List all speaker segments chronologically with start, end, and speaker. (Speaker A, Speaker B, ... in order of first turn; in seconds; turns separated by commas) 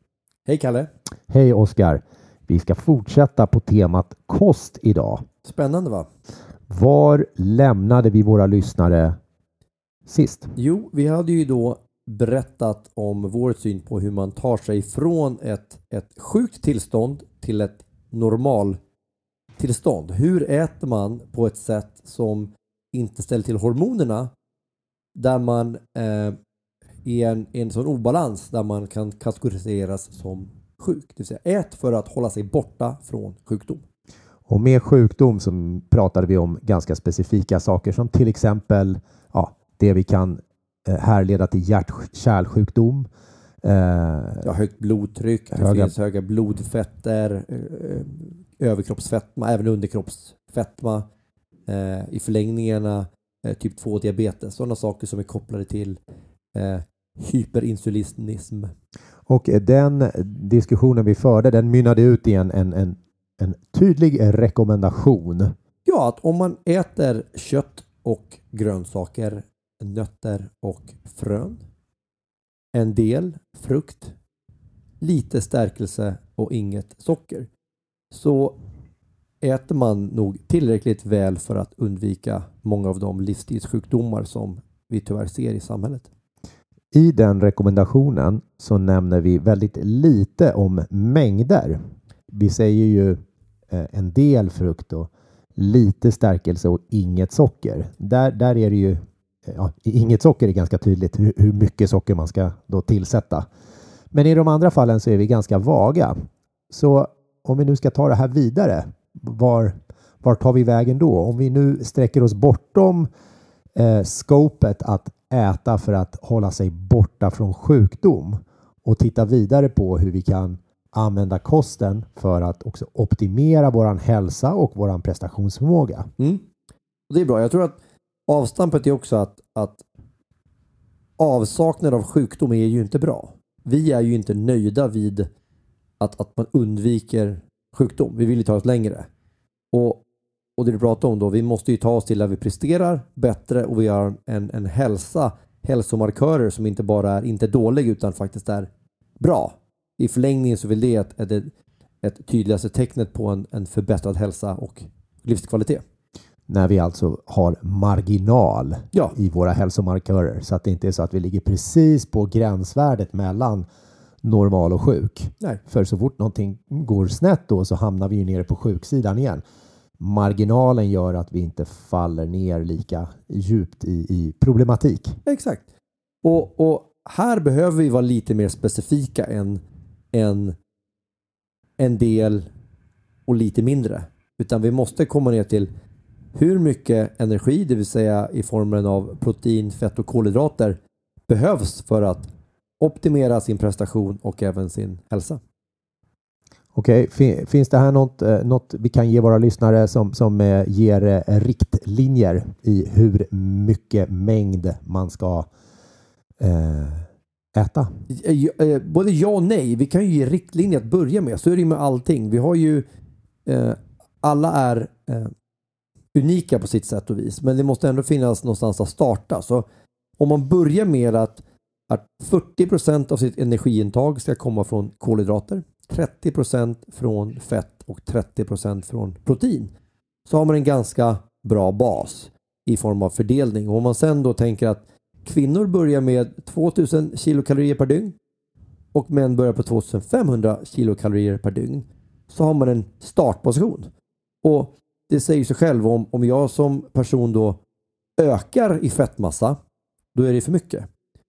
Speaker A: 0.5-0.9, Speaker B: 1.3-5.3, Speaker A: 5.4-6.1, Speaker B: 6.7-9.2, Speaker B: 10.1-10.6, Speaker A: 10.6-18.8, Speaker A: 19.6-24.3, Speaker A: 25.1-26.4, Speaker A: 27.0-33.8, Speaker B: 34.5-43.1, Speaker B: 43.6-44.5, Speaker A: 44.4-51.0, Speaker B: 45.5-45.9, Speaker A: 51.7-56.0, Speaker A: 56.5-58.7, Speaker B: 59.3-65.5, Speaker A: 65.8-71.6, Speaker A: 72.7-74.2, Speaker A: 75.0-77.5, Speaker A: 78.1-78.6, Speaker A: 79.4-86.1, Speaker B: 86.9-91.8, Speaker B: 92.3-93.2, Speaker B: 93.7-103.5, Speaker B: 104.1-106.2, Speaker B: 106.7-113.1, Speaker B: 113.8-126.1, Speaker A: 126.2-126.5, Speaker A: 127.1-129.8, Speaker A: 131.2-135.3, Speaker A: 136.0-139.1, Speaker A: 139.7-140.0, Speaker A: 140.6-151.5, Speaker A: 152.0-155.8, Speaker B: 156.5-163.7, Speaker B: 164.2-169.4, Speaker B: 170.0-175.2, Speaker A: 175.3-175.6, Speaker A: 176.2-180.6, Speaker A: 181.8-182.5, Speaker A: 183.3-185.7, Speaker A: 186.3-192.3, Speaker A: 192.8-195.4, Speaker B: 196.8-205.5, Speaker B: 206.4-207.9, Speaker A: 208.1-212.9, Speaker A: 213.4-215.3, Speaker A: 216.1-219.7, Speaker A: 220.2-229.7, Speaker A: 230.3-238.2, Speaker A: 238.9-243.9, Speaker A: 244.4-247.6, Speaker A: 248.2-249.6, Speaker A: 250.2-250.9